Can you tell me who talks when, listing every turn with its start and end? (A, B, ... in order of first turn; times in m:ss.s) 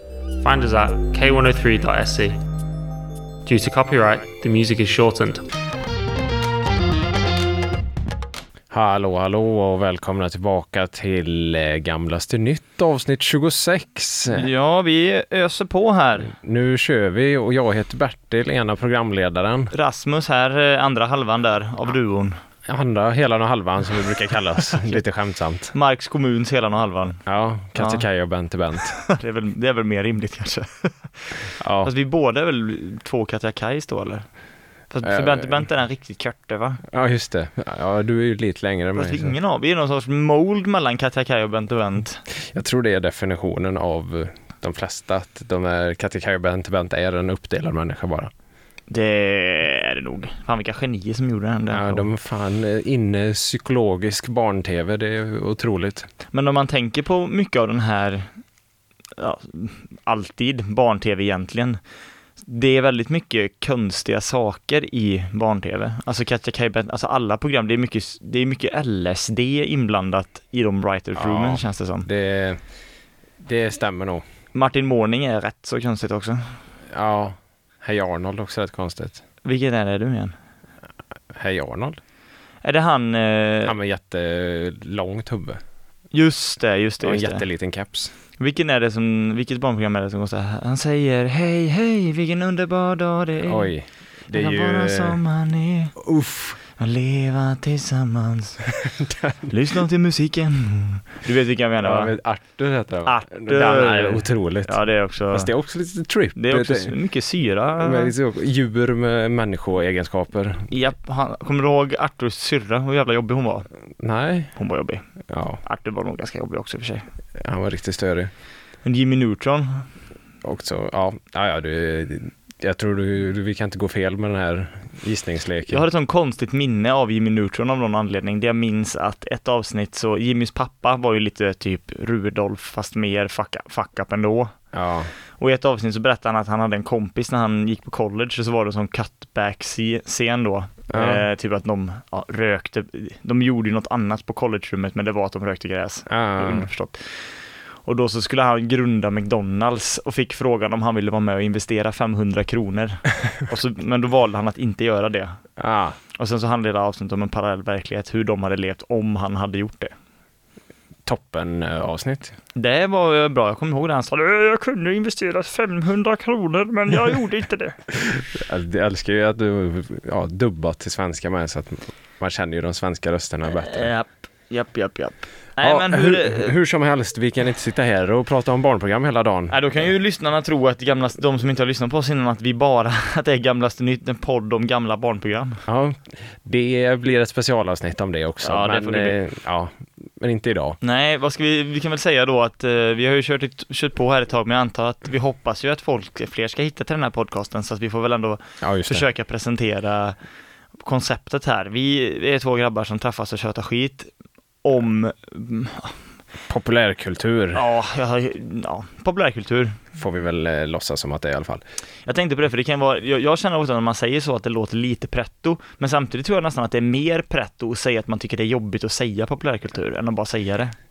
0:00.4-0:02.4 A
0:03.4-0:05.4 A
0:08.7-0:14.5 B
0:14.3-0:16.3 C
0:16.2-0:19.7 B
0:19.7-0:22.4 C
0:22.7-0:25.7 B
0:25.7-0:27.2 C
0:27.3-0:29.0 B
0:27.8-0:28.0 C
0:29.0-0:34.3 C
0:31.6-0:31.9 B
0:34.9-0:36.8 C
0:35.0-0:35.6 B
0:36.9-0:39.3 B
0:39.0-0:42.2 C
0:42.4-0:48.3 B
0:48.9-0:52.1 C
0:51.7-0:56.1 B
0:56.3-0:58.3 C
0:59.2-1:01.8 C
1:02.4-1:12.1 C
1:11.2-1:12.6 B
1:13.4-1:14.2 B
1:14.6-1:16.6 C
1:16.9-1:19.2 B
1:19.4-1:20.4 C
1:21.3-1:22.0 B
1:22.6-1:23.8 C
1:23.6-1:25.6 B
1:26.1-1:27.4 C
1:27.0-1:28.1 B
1:28.4-1:33.7 C
1:33.4-1:35.2 B
1:34.3-1:35.9 C
1:36.0-1:36.6 B
1:36.8-1:38.7 C
1:38.8-1:39.5 B
1:39.5-1:42.1 C
1:41.8-1:46.9 B
1:43.1-1:45.5 C
1:46.4-1:48.1 C
1:47.8-1:50.7 B
1:50.7-1:53.7 C
1:54.0-1:54.5 B
1:54.6-1:55.0 C
1:55.3-1:55.6 B
1:55.6-1:57.1 C
1:57.4-1:58.3 B
1:58.8-1:59.9 C
2:00.4-2:05.8 B
2:05.7-2:14.6 C
2:14.7-2:15.1 B
2:15.4-2:27.2 C
2:20.9-2:21.2 B
2:26.1-2:26.7 B
2:27.8-2:35.4 C
2:35.6-2:36.0 B
2:36.2-2:39.9 C
2:41.0-2:42.4 B
2:42.6-2:47.8 C
2:47.9-2:53.9 B
2:53.5-2:56.5 C
2:55.6-2:59.6 B
2:59.5-3:05.6 C
3:05.7-3:10.8 B
3:08.4-3:09.2 C
3:10.8-3:20.2 C
3:18.6-3:19.0 B
3:20.8-3:24.1 C
3:24.6-3:26.0 C
3:26.5-3:27.7 B
3:27.5-3:29.8 C
3:29.9-3:31.6 B
3:32.1-3:40.7 C